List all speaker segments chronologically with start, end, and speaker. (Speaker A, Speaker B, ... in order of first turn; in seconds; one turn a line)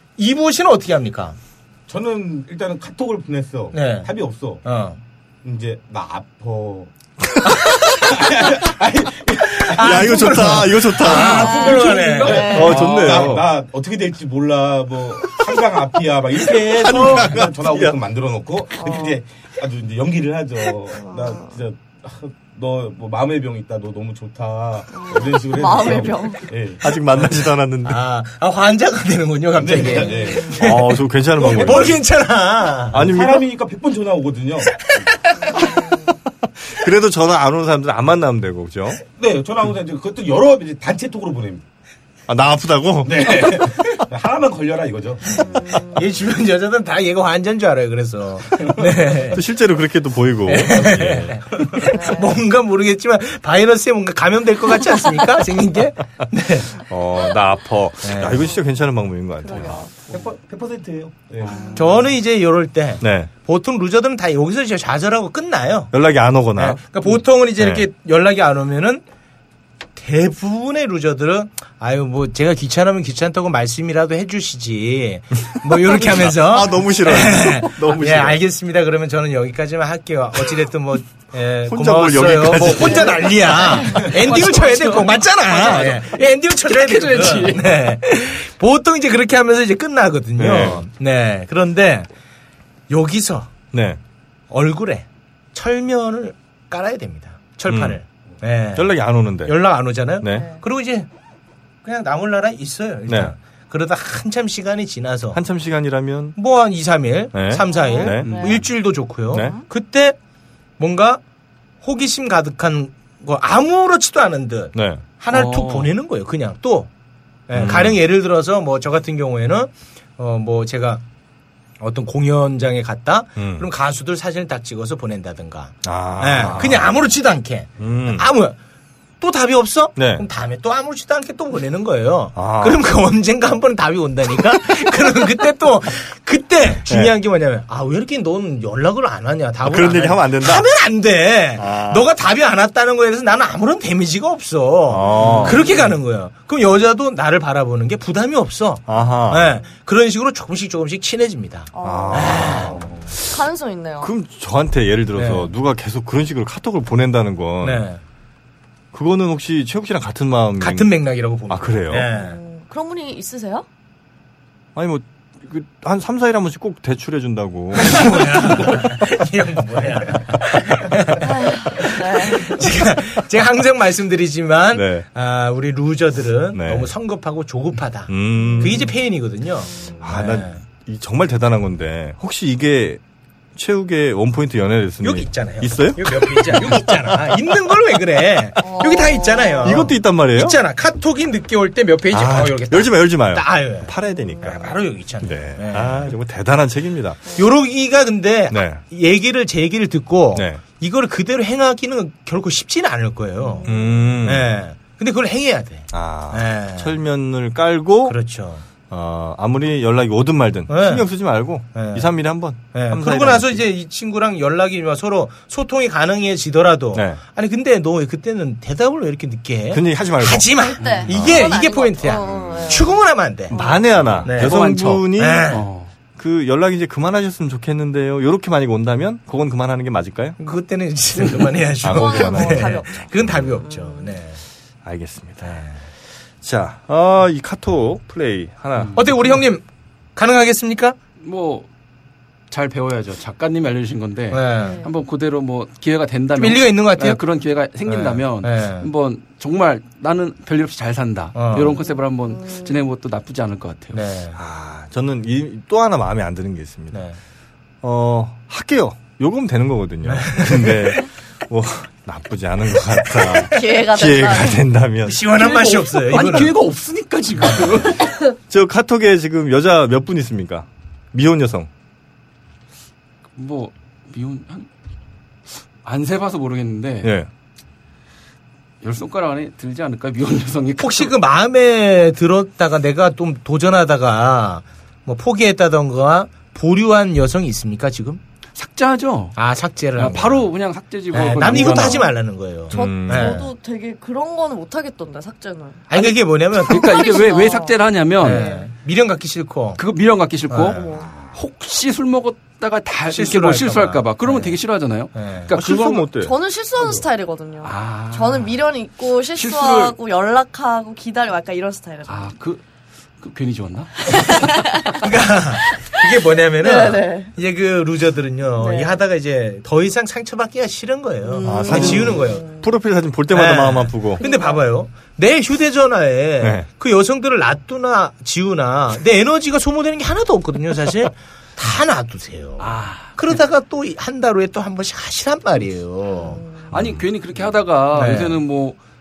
Speaker A: 0.2-1.4
Speaker B: 1.9-4.6
Speaker A: 3.7-4.1
Speaker A: 4.6-5.0
Speaker B: 5.4-6.9
Speaker A: 7.4-7.8
Speaker C: 7.5-7.8
Speaker B: 7.8-10.6
Speaker A: 9.5-12.7
Speaker C: 9.7-11.8
Speaker D: 11.1-12.9
Speaker B: 11.2-27.4
Speaker E: 11.7-12.2
Speaker C: 12.4-13.5
Speaker C: 16.5-17.9
Speaker D: 18.7-19.2
Speaker D: 20.9-21.5
Speaker D: 24.9-26.5
Speaker C: 26.8-28.0
Speaker A: 27.9-33.1
Speaker B: 29.6-30.7
Speaker D: 29.8-30.6
Speaker C: 30.6-32.0
Speaker B: 31.5-31.8
Speaker C: 32.9-33.5
Speaker B: 32.9-34.9
Speaker A: 34.9-35.5
Speaker D: 35.4-36.1
Speaker C: 36.6-39.0
Speaker B: 39.2-41.6
Speaker C: 42.3-43.7
Speaker B: 43.0-45.4
Speaker D: 45.3-46.1
Speaker A: 45.4-49.4
Speaker C: 49.3-51.6
Speaker A: 50.5-56.7
Speaker D: 51.9-52.4
Speaker C: 56.7-59.8
Speaker A: 58.0-58.5
Speaker D: 59.4-59.9
Speaker B: 60.1-62.0
Speaker D: 61.5-62.0
Speaker A: 61.7-65.9
Speaker C: 63.0-63.3
Speaker C: 65.9-66.8
Speaker A: 66.5-69.0
Speaker C: 67.6-67.9
Speaker A: 70.0-92.1
Speaker C: 75.6-78.4
Speaker C: 81.6-83.7
Speaker E: 82.5-87.9
Speaker C: 90.4-90.8
Speaker A: 92.9-93.5
Speaker C: 93.7-94.0
Speaker A: 94.5-98.9
Speaker C: 97.7-98.0
Speaker C: 98.7-99.6
Speaker A: 99.4-101.1
Speaker C: 100.2-100.5
Speaker D: 100.3-100.6
Speaker A: 101.8-105.4
Speaker C: 103.1-103.3
Speaker C: 105.3-106.4
Speaker A: 106.3-110.2
Speaker C: 107.3-108.6
Speaker D: 107.6-108.6
Speaker E: 108.2-108.6
Speaker C: 109.3-109.6
Speaker D: 109.3-109.6
Speaker A: 110.8-111.2
Speaker A: 111.8-116.9
Speaker C: 114.7-115.0
Speaker E: 115.3-115.9
Speaker A: 117.5-121.0
Speaker C: 117.5-118.0
Speaker A: 121.8-128.6
Speaker C: 123.3-123.7
Speaker C: 125.8-127.0
Speaker C: 127.8-128.3
Speaker A: 129.2-153.1
Speaker C: 129.9-130.2
Speaker C: 132.3-132.8
Speaker C: 136.9-137.1
Speaker C: 139.6-140.7
Speaker C: 141.6-142.1
Speaker C: 144.9-145.6
Speaker E: 145.2-145.5
Speaker C: 148.9-149.5
Speaker D: 148.9-149.6
Speaker D: 151.7-154.1
Speaker C: 151.8-153.3
Speaker C: 154.0-157.8
Speaker A: 155.2-155.5
Speaker A: 157.6-158.0
Speaker C: 158.9-160.9
Speaker A: 160.6-162.4
Speaker C: 161.5-162.1
Speaker D: 161.9-163.7
Speaker C: 164.7-169.0
Speaker A: 167.8-180.6
Speaker D: 171.2-172.7
Speaker C: 174.7-175.0
Speaker C: 176.5-176.9
Speaker C: 178.1-178.9
Speaker D: 178.4-178.8
Speaker D: 179.7-180.1
Speaker C: 180.0-183.0
Speaker C: 183.6-187.5
Speaker A: 185.0-196.1
Speaker D: 188.6-189.9
Speaker C: 189.6-190.6
Speaker C: 192.1-197.2
Speaker D: 194.1-194.6
Speaker A: 197.3-206.9
Speaker C: 198.5-198.8
Speaker C: 200.3-200.6
Speaker D: 203.4-204.0
Speaker C: 203.6-204.5
Speaker C: 205.9-208.2
Speaker A: 208.0-208.6
Speaker C: 208.9-213.6
Speaker A: 210.7-211.1
Speaker A: 211.7-223.6
Speaker C: 216.9-217.2
Speaker C: 219.7-220.5
Speaker D: 220.6-224.2
Speaker E: 220.8-221.1
Speaker C: 221.1-221.5
Speaker C: 223.5-225.6
Speaker A: 224.2-225.6
Speaker E: 224.2-225.9
Speaker C: 226.2-230.4
Speaker A: 230.4-234.4
Speaker C: 231.8-232.8
Speaker D: 231.8-234.2
Speaker C: 234.8-235.7
Speaker A: 235.4-235.7
Speaker C: 236.4-239.3
Speaker A: 238.9-239.6
Speaker A: 240.2-240.9
Speaker E: 241.2-241.7
Speaker E: 242.5-254.0
Speaker A: 244.3-244.8
Speaker D: 244.6-244.9
Speaker A: 246.3-247.2
Speaker A: 247.8-248.9
Speaker A: 251.3-251.8
Speaker D: 251.6-252.8
Speaker A: 253.9-254.4
Speaker C: 254.3-257.0
Speaker A: 256.9-257.2
Speaker C: 257.8-265.3
Speaker A: 260.0-260.8
Speaker D: 263.3-264.6
Speaker A: 265.0-266.6
Speaker E: 265.3-268.1
Speaker C: 268.5-271.7
Speaker E: 273.4-274.7
Speaker E: 275.8-277.1
Speaker C: 277.0-277.3
Speaker E: 278.8-281.1
Speaker A: 280.8-288.2
Speaker E: 288.5-289.4
Speaker A: 289.4-290.5
Speaker E: 289.9-292.1
Speaker A: 291.1-293.5
Speaker D: 291.5-292.1
Speaker C: 292.7-293.4
Speaker D: 292.7-295.9
Speaker A: 295.9-297.1
Speaker E: 295.9-298.4
Speaker D: 296.7-298.7
Speaker A: 298.2-299.8
Speaker E: 299.8-306.1
Speaker A: 300.5-300.8
Speaker D: 300.7-301.2
Speaker B: 300.9-301.4
Speaker A: 303.1-304.6
Speaker A: 305.1-305.5
Speaker C: 305.5-306.3
Speaker D: 306.1-312.3
Speaker E: 307.6-308.6
Speaker E: 309.3-309.9
Speaker E: 312.1-312.6
Speaker E: 313.2-314.5
Speaker D: 314.1-315.0
Speaker A: 315.0-322.4
Speaker D: 316.6-317.3
Speaker D: 318.6-319.0
Speaker D: 321.2-322.7
Speaker C: 321.4-324.2
Speaker A: 323.3-336.4
Speaker D: 324.1-324.7
Speaker C: 326.4-326.6
Speaker E: 332.6-333.1
Speaker D: 336.1-336.7
Speaker C: 336.7-337.0
Speaker E: 336.7-338.8
Speaker A: 337.9-338.4